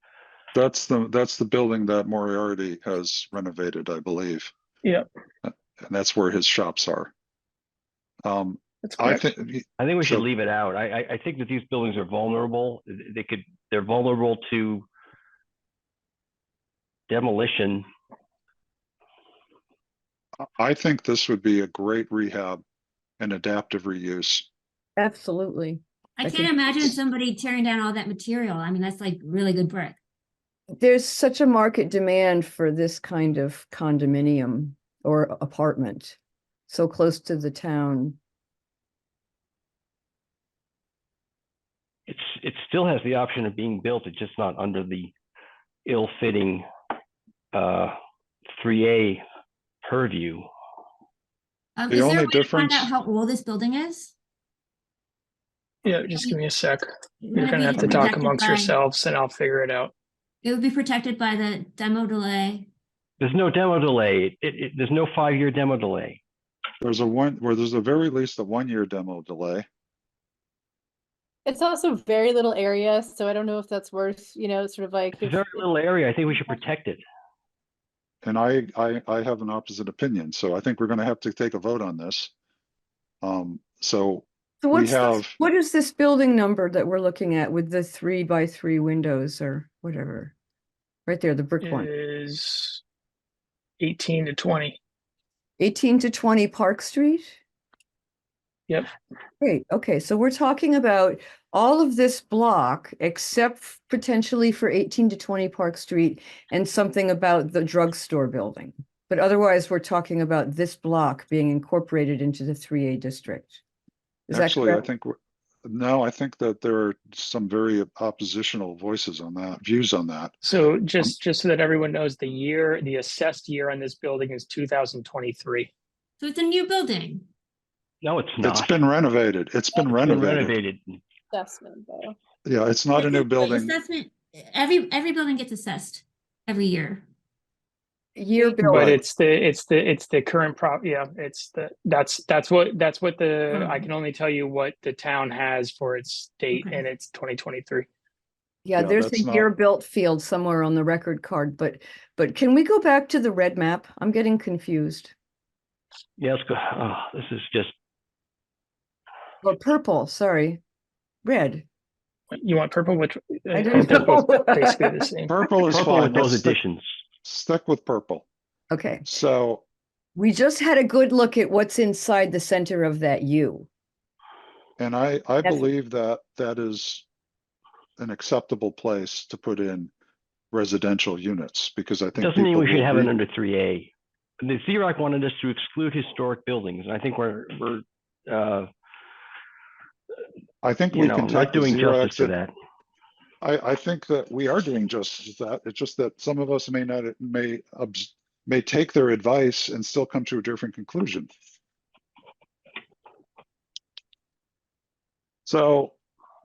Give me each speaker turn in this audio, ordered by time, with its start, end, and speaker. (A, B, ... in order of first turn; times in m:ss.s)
0:00.5-0:04.5 A
0:05.4-0:07.1 A
0:08.2-0:10.3 A
0:08.8-0:09.2 B
0:09.8-0:14.9 C
0:17.1-0:17.8 C
0:20.6-0:22.6 A
0:23.2-0:24.5 A
0:25.0-0:26.5 D
0:26.2-0:30.0 E
0:30.8-0:36.2 D
0:36.7-0:38.2 D
0:42.1-0:45.1 C
0:45.8-0:46.7 C
0:47.5-0:47.9 C
0:48.6-0:49.2 C
0:49.8-0:50.5 C
0:51.8-0:54.1 E
0:51.9-0:52.9 A
0:55.8-0:59.9 B
0:57.2-0:58.8 E
1:00.4-1:02.7 E
1:03.2-1:06.2 C
1:06.8-1:09.7 A
1:11.5-1:15.6 F
1:15.2-1:17.0 C
1:18.2-1:22.3 A
1:23.2-1:25.4 A
1:24.6-1:30.3 D
1:31.1-1:31.9 D
1:31.6-1:32.8 B
1:33.8-1:34.8 B
1:35.6-1:37.4 D
1:39.4-1:53.6 D
1:54.3-1:54.8 D
1:54.3-2:00.4 A
2:00.4-2:05.7 B
2:06.2-2:07.3 E
2:08.0-2:08.8 C
2:08.4-2:10.6 A
2:09.9-2:11.0 C
2:11.3-2:12.2 F
2:12.4-2:13.7 A
2:13.0-2:17.0 E
2:18.2-2:19.0 D
2:18.6-2:27.9 B
2:18.6-2:19.0 A
2:28.6-2:35.1 D
2:28.8-2:29.5 A
2:36.2-2:37.7 C
2:39.4-2:40.6 D
2:41.2-2:41.6 D
2:42.3-2:45.3 B
2:43.5-2:45.1 D
2:45.3-2:46.6 A
2:45.7-2:46.8 C
2:47.2-2:48.2 A
2:48.7-2:49.0 D
2:49.1-2:49.6 A
2:50.2-2:53.7 D
2:54.8-2:57.0 A
2:58.0-2:59.9 A
3:00.5-3:03.1 A
3:02.2-3:08.7 C
3:10.6-3:12.3 A
3:10.9-3:12.5 C
3:13.4-3:21.3 A
3:25.4-3:25.9 A